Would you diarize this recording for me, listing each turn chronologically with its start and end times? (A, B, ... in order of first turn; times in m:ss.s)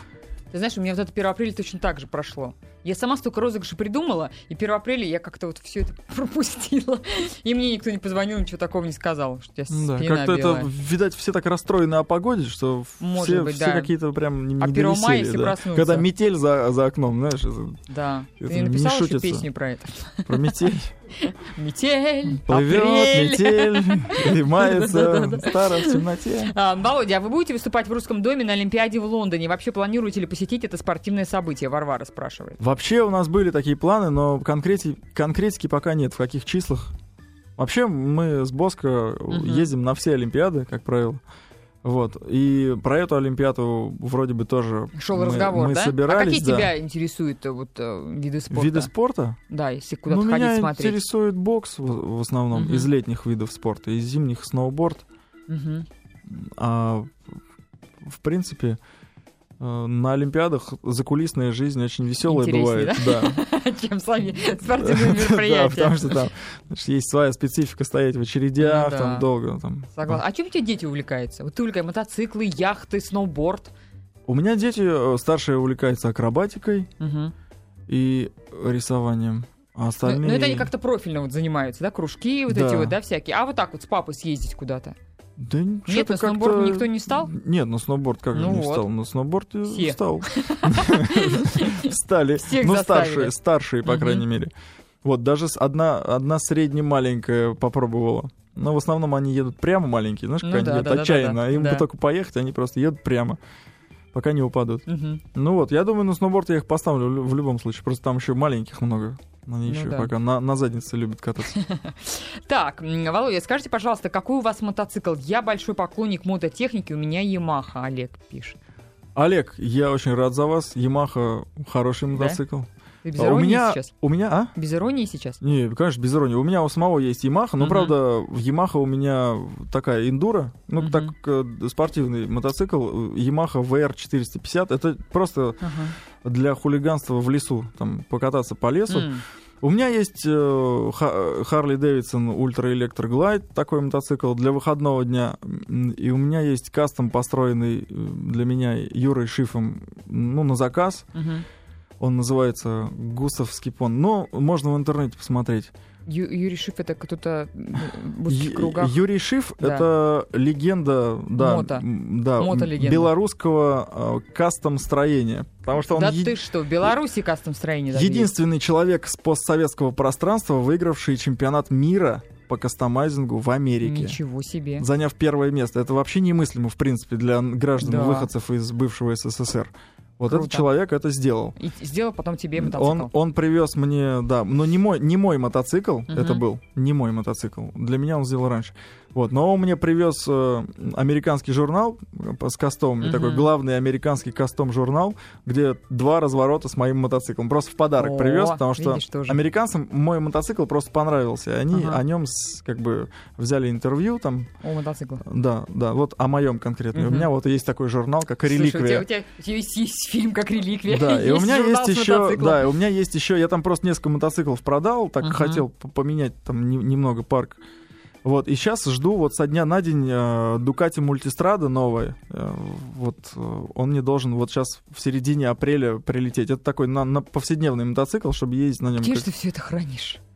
0:00.5-0:10.7 A
0:09.7-0:17.8 B
0:13.0-0:13.9 A
0:14.6-0:16.1 A
0:17.9-0:20.7 A
0:18.4-0:19.4 B
0:20.2-0:20.9 B
0:21.2-0:32.6 A
0:22.4-0:26.5 B
0:32.6-0:36.9 B
0:37.6-0:41.2 B
0:39.3-0:39.7 A
0:41.8-0:46.7 B
0:44.9-0:48.9 A
0:48.5-0:49.4 B
0:49.5-0:51.0 A
0:50.1-0:55.0 B
0:52.5-0:52.9 A
0:55.5-0:55.9 A
0:56.2-0:57.2 B
0:58.0-0:58.8 B
0:59.6-1:03.4 B
1:02.2-1:06.2 A
1:04.6-1:10.2 B
1:08.6-1:09.3 A
1:09.9-1:13.7 A
1:14.3-1:16.9 B
1:17.0-1:17.3 A
1:17.9-1:20.7 B
1:20.0-1:25.0 A
1:22.5-1:23.0 B
1:25.4-1:34.5 B
1:25.9-1:27.3 A
1:28.3-1:28.9 A
1:29.7-1:34.2 A
1:35.0-1:43.4 B
1:40.4-1:41.8 A
1:44.1-1:51.6 B
1:44.9-1:45.2 A
1:49.6-1:50.1 A
1:51.5-1:58.6 A
1:59.2-2:04.5 B
2:02.1-2:02.4 A
2:03.0-2:03.9 A
2:04.5-2:05.4 A
2:05.4-2:31.1 B
2:07.6-2:07.9 A
2:10.8-2:11.1 A
2:15.6-2:15.9 A
2:18.9-2:19.2 A
2:31.1-2:31.4 A
2:32.0-2:35.7 B
2:36.1-2:39.0 A
2:38.3-2:46.9 B
2:39.6-2:39.9 A
2:41.4-2:41.8 A
2:42.4-2:43.1 A
2:45.9-2:48.3 A
2:47.9-2:54.2 B
2:53.8-2:54.8 A
2:54.8-3:01.5 B
2:57.8-2:58.3 A
3:00.2-3:00.7 A
3:01.6-3:03.1 A
3:02.6-3:24.5 B
3:06.1-3:06.4 A
3:13.0-3:13.5 A
3:18.0-3:19.4 A
3:21.7-3:22.0 A
3:24.6-3:25.2 A
3:25.2-3:29.0 B
3:26.9-3:27.3 A
3:28.5-3:32.7 A
3:30.9-3:37.6 B
3:35.2-3:35.6 A
3:38.2-3:49.3 B
3:49.0-3:50.2 A